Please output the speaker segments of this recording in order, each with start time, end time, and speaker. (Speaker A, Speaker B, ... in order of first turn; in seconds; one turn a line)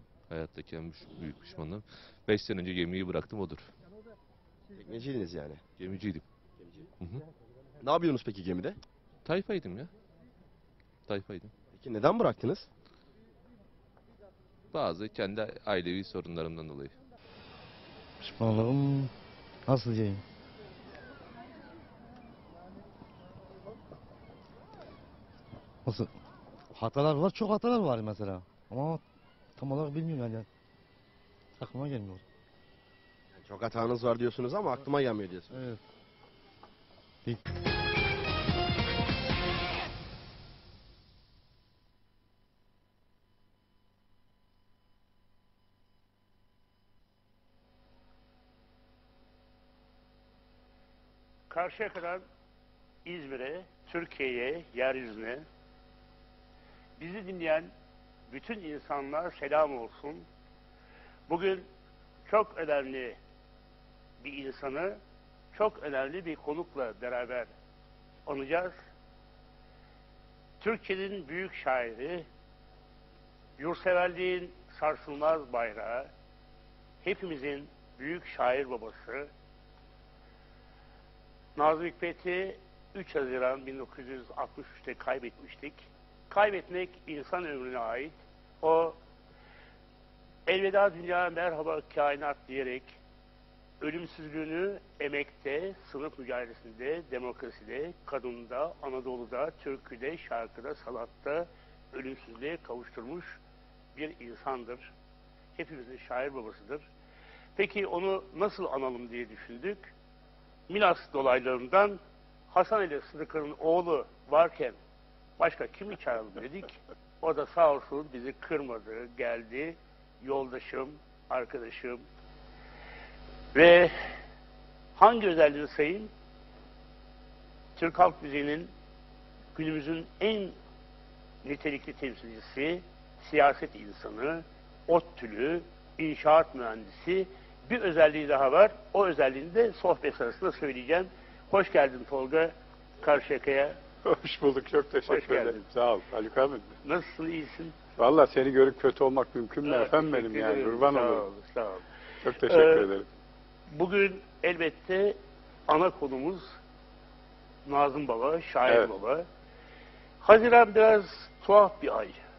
Speaker A: 0.3-3.7
Speaker B: 4.8-5.6
Speaker A: 5.8-6.2
Speaker B: 6.6-6.9
Speaker B: 7.8-8.8
Speaker A: 9.2-9.9
Speaker A: 11.1-11.5
Speaker B: 11.7-12.7
Speaker A: 14.7-16.9
Speaker C: 18.2-19.1
Speaker C: 19.7-20.2
Speaker C: 25.9-26.1
Speaker C: 26.7-29.0
Speaker C: 29.6-30.5
Speaker C: 31.6-32.2
Speaker B: 33.3-35.6
Speaker C: 35.5-35.8
Speaker D: 51.5-52.2
Speaker D: 53.0-55.5
Speaker D: 57.0-57.7
Speaker D: 58.3-60.3
Speaker D: 61.3-61.7
Speaker D: 62.3-63.2
Speaker D: 64.2-65.0
Speaker D: 65.5-67.5
Speaker D: 68.3-68.8
Speaker D: 70.6-72.3
Speaker D: 73.6-76.1
Speaker D: 77.0-79.3
Speaker D: 81.6-89.0
Speaker D: 90.5-93.0
Speaker D: 93.8-103.4
Speaker D: 104.0-104.9
Speaker D: 105.6-106.9
Speaker D: 107.6-109.9
Speaker D: 110.7-112.0
Speaker D: 112.5-114.8
Speaker D: 115.4-122.0
Speaker D: 123.5-123.9
Speaker D: 125.0-126.1
Speaker D: 127.8-128.7
Speaker D: 129.5-130.6
Speaker D: 131.4-143.8
Speaker E: 144.0-146.7
Speaker D: 145.1-145.6
Speaker D: 146.8-147.8
Speaker E: 148.0-151.3
Speaker D: 149.6-151.8
Speaker E: 152.2-153.1
Speaker D: 152.4-152.9
Speaker D: 153.7-155.2
Speaker D: 155.7-156.5
Speaker D: 157.7-159.3
Speaker D: 160.2-162.2